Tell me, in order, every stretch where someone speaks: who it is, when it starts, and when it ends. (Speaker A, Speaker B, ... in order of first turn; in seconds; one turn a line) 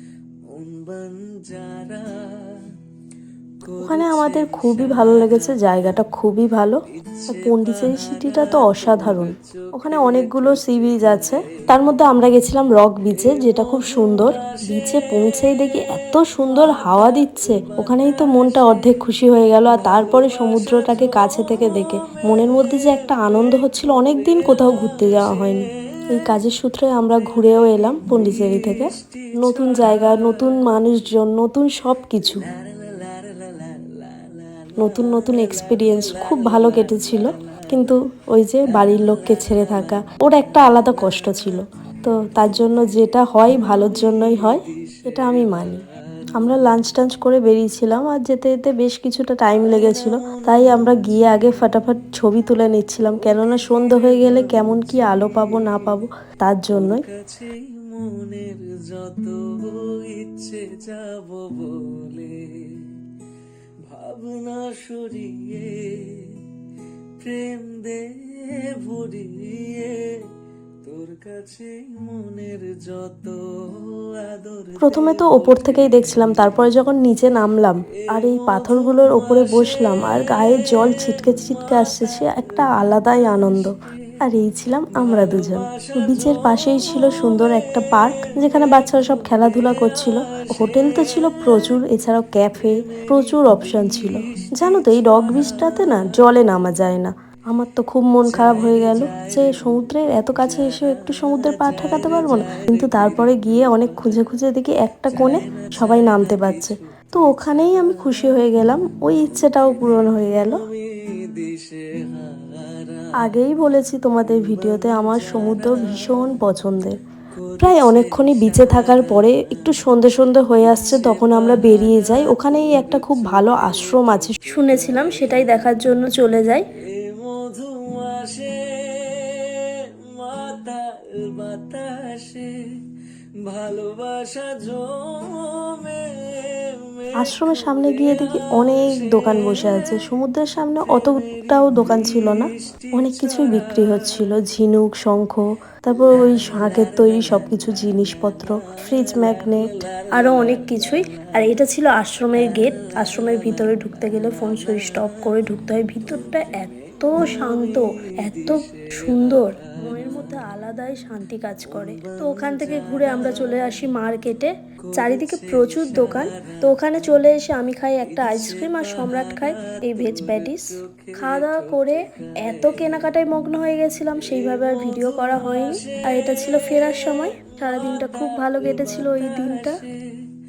Speaker A: 0.5-2.7
Speaker A: 3.7-5.3
Speaker B: 3.8-6.8
Speaker A: 7.0-12.0
Speaker B: 7.3-32.4
Speaker A: 13.2-15.9
Speaker A: 16.8-18.7
Speaker A: 19.8-22.3
Speaker A: 24.0-25.6
Speaker A: 28.0-30.3
Speaker A: 32.5-37.2
Speaker B: 34.8-45.8
Speaker A: 39.4-39.7
Speaker A: 43.8-45.8
Speaker B: 46.4-57.0
Speaker A: 54.3-55.5
Speaker A: 57.1-63.0
Speaker A: 63.9-66.5
Speaker A: 67.2-70.3
Speaker A: 70.8-76.4
Speaker B: 74.8-110.6
Speaker A: 78.0-83.5
Speaker A: 85.0-87.6
Speaker A: 88.5-90.0
Speaker A: 90.6-91.3
Speaker A: 95.2-96.0
Speaker A: 98.3-99.8
Speaker A: 100.4-104.0
Speaker A: 105.5-106.8
Speaker A: 110.9-113.1
Speaker B: 113.2-117.0
Speaker A: 114.5-116.2
Speaker A: 117.5-119.5
Speaker B: 117.6-126.7
Speaker A: 121.1-124.2
Speaker A: 125.0-125.3
Speaker A: 126.9-132.9
Speaker A: 133.4-139.9
Speaker B: 137.2-179.8
Speaker A: 141.1-143.9
Speaker A: 146.5-147.4
Speaker A: 149.2-151.1
Speaker A: 152.5-155.4
Speaker A: 156.1-160.4
Speaker A: 161.7-163.8
Speaker A: 165.0-166.2
Speaker A: 168.2-172.0
Speaker A: 172.6-172.9
Speaker A: 174.2-177.3
Speaker A: 177.9-180.3